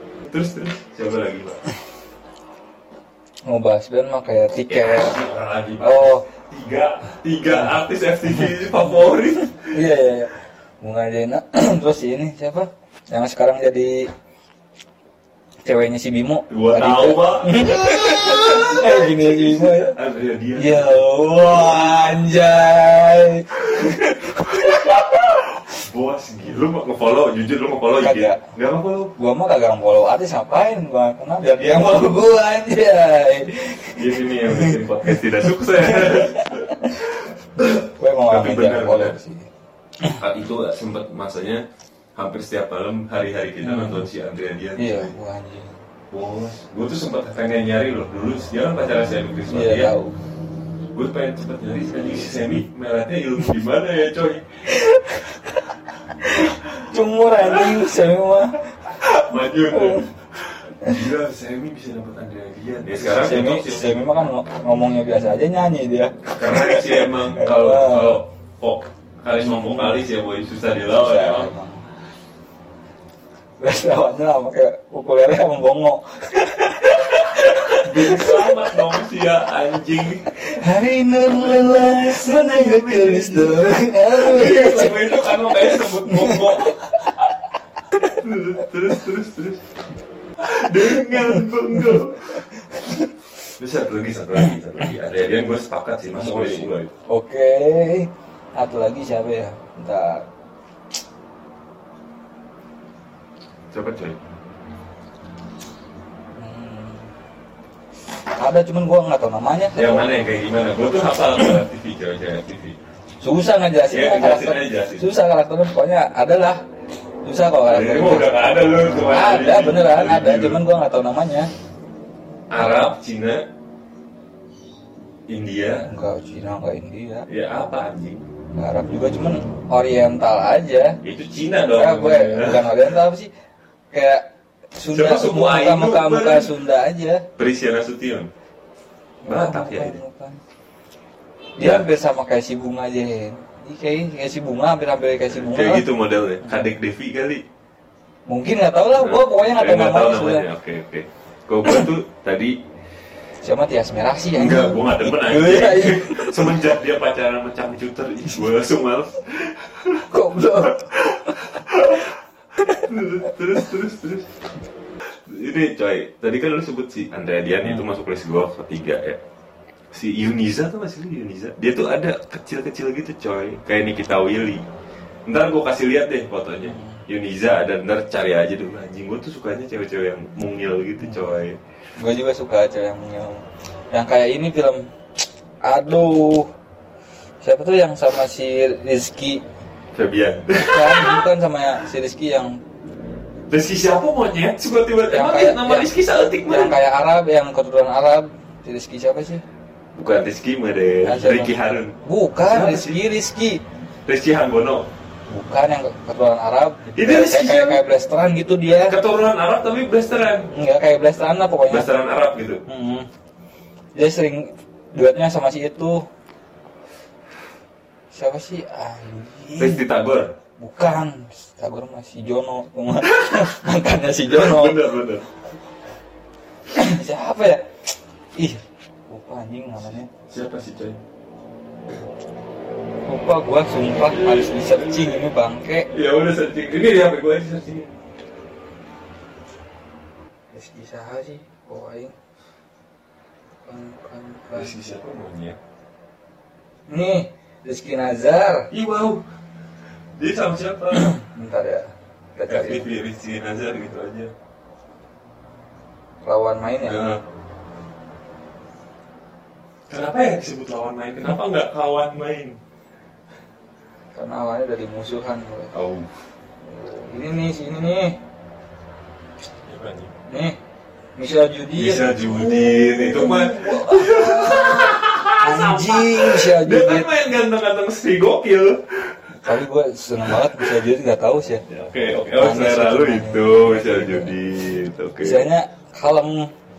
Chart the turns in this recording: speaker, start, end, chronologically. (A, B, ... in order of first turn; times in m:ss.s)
0:00.2-0:01.6 A
0:03.4-0:05.2 B
0:04.7-0:09.8 A
0:05.8-0:06.2 B
0:07.4-0:07.8 B
0:09.5-0:14.1 B
0:15.6-0:20.0 B
0:16.5-0:21.9 A
0:20.6-0:25.5 B
0:23.7-0:24.8 A
0:25.6-0:29.1 A
0:28.0-0:28.4 B
0:29.2-0:36.9 B
0:31.4-0:32.1 A
0:33.9-0:39.2 A
0:38.0-0:39.5 B
0:40.0-0:41.6 A
0:42.2-0:45.1 A
0:43.6-0:44.1 B
0:44.8-0:45.7 B
0:46.1-0:49.9 A
0:49.5-0:50.2 B
0:50.9-0:54.6 A
0:54.7-0:55.4 B
0:56.2-0:58.7 B
0:57.4-0:57.7 A
0:58.9-1:04.0 A
0:59.5-1:00.1 B
1:02.9-1:08.2 B
1:06.3-1:11.5 A
1:09.3-1:10.0 B
1:10.9-1:11.8 B
1:13.6-1:18.8 B
1:17.8-1:20.3 A
1:20.3-1:27.0 B
1:21.3-1:26.8 A
1:28.1-1:29.6 A
1:30.4-1:32.4 A
1:31.1-1:31.4 B
1:33.6-1:36.9 A
1:36.1-1:40.2 B
1:43.7-1:44.2 A
1:46.4-1:47.1 B
1:48.4-1:50.3 B
1:49.7-1:52.8 A
1:53.2-1:56.6 B
1:53.9-1:55.1 A
1:57.2-2:01.5 B
1:57.6-2:00.6 A
2:02.5-2:03.4 A
2:05.3-2:05.9 A
2:05.7-2:07.3 B
2:07.3-2:08.2 A
2:08.6-2:11.0 B
2:11.0-2:13.0 A
2:11.7-2:13.3 B
2:13.9-2:17.2 B
2:14.9-2:16.5 A
2:17.4-2:18.3 A
2:19.2-2:20.4 B
2:19.2-2:20.0 A
2:21.6-2:25.9 B
2:21.6-2:21.8 A
2:25.3-2:27.4 A
2:26.4-2:26.7 B
2:28.3-2:30.4 B
2:28.9-2:32.6 A
2:33.4-2:36.6 B
2:34.3-2:42.1 A
2:40.1-2:40.8 B
2:42.7-2:44.3 A
2:45.3-2:49.2 A
2:49.9-2:54.6 A
2:55.2-3:01.6 A
2:56.7-2:57.0 B
3:01.0-3:01.4 B
3:02.0-3:04.9 B
3:05.6-3:06.5 B
3:07.4-3:09.4 B
3:09.9-3:11.2 A
3:10.5-3:12.6 B
3:13.5-3:16.8 A
3:15.1-3:19.4 B
3:20.0-3:23.0 A
3:21.0-3:23.6 B
3:24.1-3:24.9 A
3:25.3-3:29.0 B
3:26.9-3:27.8 A
3:28.6-3:30.5 A
3:30.5-3:31.9 B
3:31.7-3:32.6 A
3:32.6-3:33.1 B
3:33.9-3:36.0 B
3:38.1-3:39.8 B
3:39.6-3:40.3 A
3:40.6-3:44.8 B
3:44.3-3:45.3 A
3:46.7-3:47.6 B
3:48.3-3:50.1 B
3:50.3-3:51.0 A
3:53.1-3:55.9 B
3:54.0-3:55.2 A
3:55.9-3:57.9 A
4:00.5-4:02.1 B
4:03.6-4:04.7 B
4:04.5-4:05.6 A
4:06.9-4:08.7 B
4:08.7-4:09.2 A
4:10.2-4:11.1 A
4:10.9-4:12.8 B
4:12.5-4:14.3 A
4:16.2-4:17.2 B
4:16.9-4:17.2 A
4:19.9-4:22.6 A
4:24.1-4:25.7 B
4:25.7-4:26.1 A
4:26.6-4:28.2 B
4:29.6-4:30.1 A
4:30.3-4:30.6 B
4:31.2-4:37.2 B
4:31.8-4:39.2 A
4:39.4-4:41.6 B
4:40.3-4:40.6 A
4:41.7-4:45.4 A
4:42.4-4:44.4 B
4:45.2-4:46.5 B